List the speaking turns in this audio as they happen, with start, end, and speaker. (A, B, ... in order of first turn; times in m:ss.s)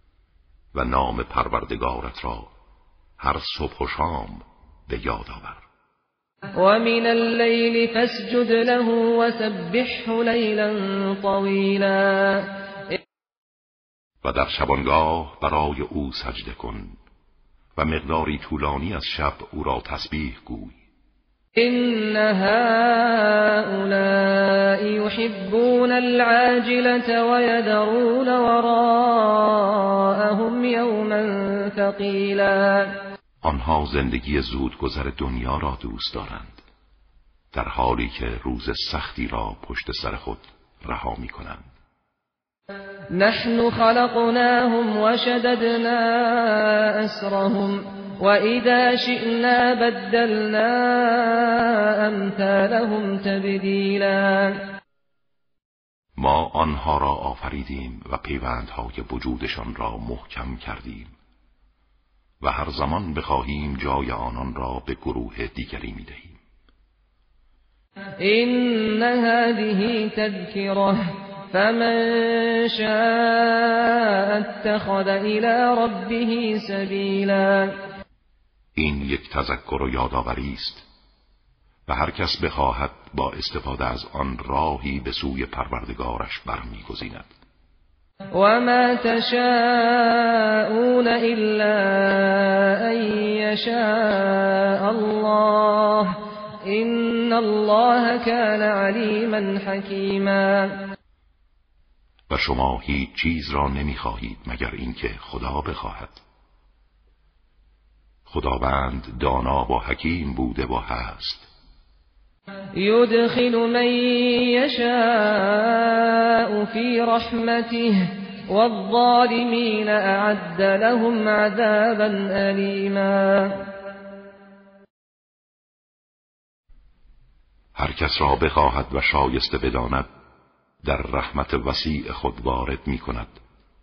0:00.7-0:02.5 A
0:03.2-0:05.6 A
0:06.6-0:12.5 B
0:14.2-0:17.0 A
0:17.8-0:20.8 A
0:21.6-0:33.0 B
0:33.4-0:36.6 A
0:37.5-0:41.6 A
0:43.2-0:54.7 B
0:56.2-1:01.1 A
1:02.4-1:06.4 A
1:08.2-1:17.8 B
1:18.8-1:20.8 A
1:21.9-1:27.3 A
1:28.3-1:40.9 B
1:42.3-1:46.2 A
1:48.3-1:51.5 A
1:52.8-2:03.7 B
2:07.8-2:10.1 A
2:10.8-2:13.4 A